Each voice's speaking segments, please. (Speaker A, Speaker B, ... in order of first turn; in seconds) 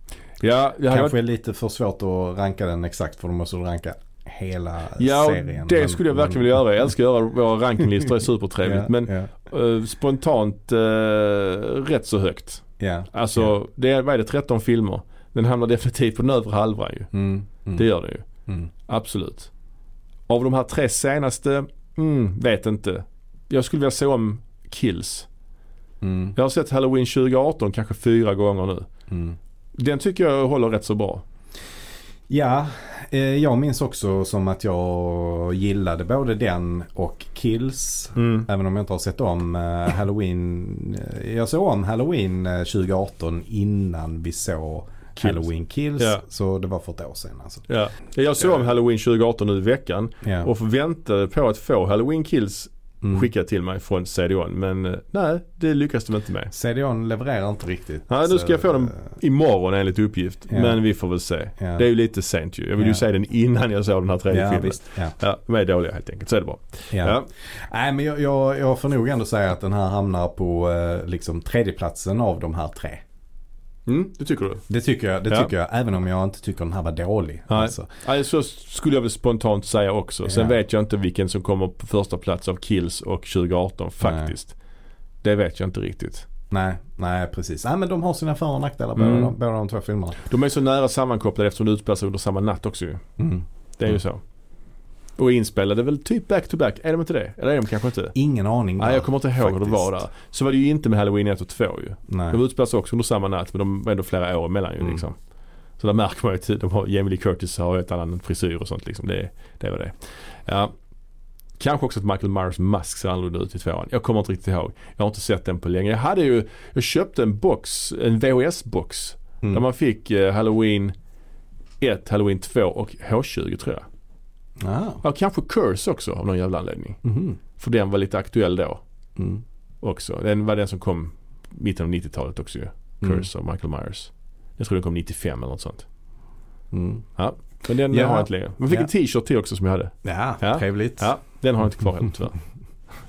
Speaker A: 0.4-1.1, 5.0-17.1, 17.7-18.2, 18.9-19.5, 20.3-25.3, 26.3-28.9, 29.8-31.2, 38.1-38.5, 45.2-45.5, 46.0-46.2, 47.7-56.5, 58.1-67.3, 73.8-74.6, 77.5-84.5, 85.2-86.3, 89.0-89.3, 90.3-93.0, 93.8-94.2, 95.2-98.1, 98.8-105.1, 105.8-109.9, 110.5-110.7, 111.6-121.0, 121.8-123.8, 125.0-127.0, 127.5-128.8, 129.8-135.8, 137.2-142.3
Speaker B: 0.9-6.4, 8.6-9.3, 12.8-13.5, 17.1-17.9, 26.0-26.4, 29.1-29.4, 32.3-47.6, 50.2-50.5, 53.0-53.3, 56.5-59.1, 60.5-60.8, 61.6-61.8, 62.8-63.0, 64.3-65.1, 66.9-73.0, 74.7-77.9, 80.2-80.5, 84.0-84.3, 86.5-90.2, 93.2-94.0, 98.1-100.0, 102.1-102.4, 124.6-125.0, 127.0-127.4, 129.2-129.4, 136.7-137.1, 137.9-138.9, 140.0-141.1